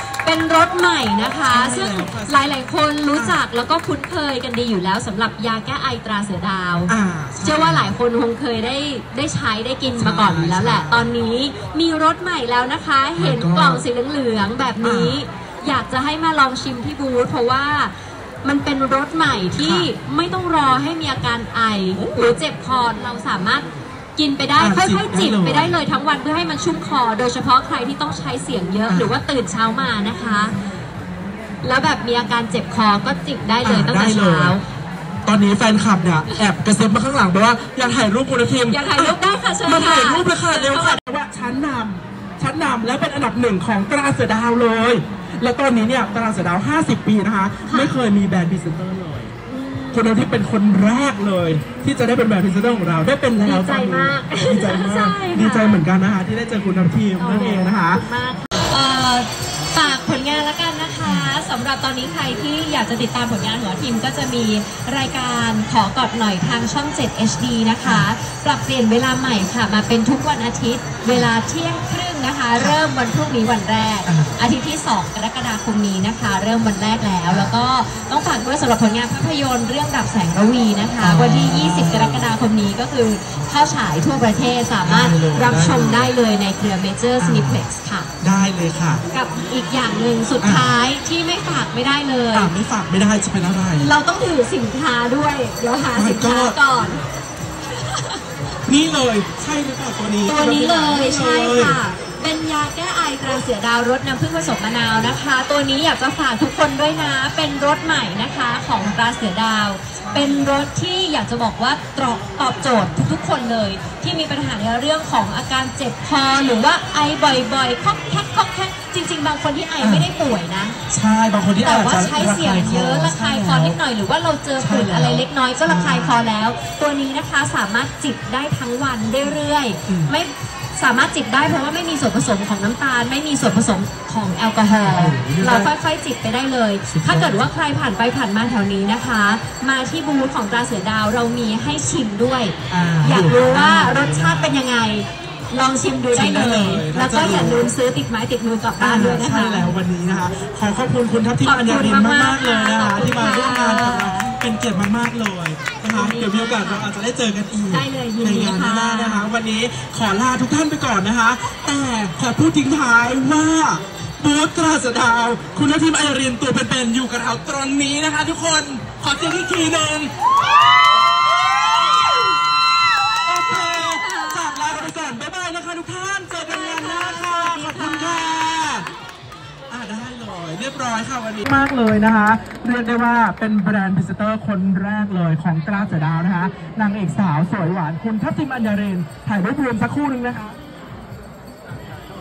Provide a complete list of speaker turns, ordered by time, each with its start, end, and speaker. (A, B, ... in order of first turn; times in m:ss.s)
0:00.2-0:17.9 A
0:01.5-0:02.5 B
0:03.1-0:03.4 B
0:06.9-0:07.9 B
0:10.0-0:11.1 B
0:13.2-0:13.8 B
0:14.8-0:15.2 B
0:18.4-0:23.6 A
0:19.6-0:19.9 B
0:22.0-0:22.4 B
0:24.2-0:30.5 A
0:24.6-0:25.7 B
0:28.9-0:29.1 B
0:31.6-0:34.6 A
0:33.6-0:34.6 B
0:35.2-0:49.3 B
0:38.6-0:41.0 A
0:47.7-0:47.9 A
0:49.5-0:50.1 A
0:49.9-0:58.0 B
0:53.4-0:55.8 A
0:57.2-1:28.1 A
1:01.0-1:01.3 B
1:07.8-1:08.1 B
1:14.0-1:14.3 B
1:17.3-1:17.5 B
1:21.0-1:22.3 B
1:24.8-1:26.1 B
1:27.2-1:27.6 B
1:28.2-1:29.0 B
1:29.1-1:32.5 A
1:30.4-1:30.7 B
1:32.3-1:33.9 B
1:33.8-1:37.0 A
1:35.9-1:36.6 B
1:37.7-1:38.2 A
1:38.7-1:41.8 B
1:40.2-2:00.8 A
1:50.0-1:50.3 B
1:59.8-2:00.1 B
2:00.9-2:03.8 B
2:01.6-2:29.7 A
2:04.6-2:06.2 B
2:09.9-2:10.1 B
2:14.8-2:15.7 B
2:16.8-2:17.5 B
2:22.7-2:24.6 B
2:26.1-2:27.7 B
2:28.8-2:50.1 B
2:31.4-2:34.3 A
2:35.9-2:36.9 A
2:37.7-2:39.3 A
2:53.2-2:58.9 B
2:53.4-2:54.9 A
2:56.4-2:58.9 A
2:59.7-3:10.5 B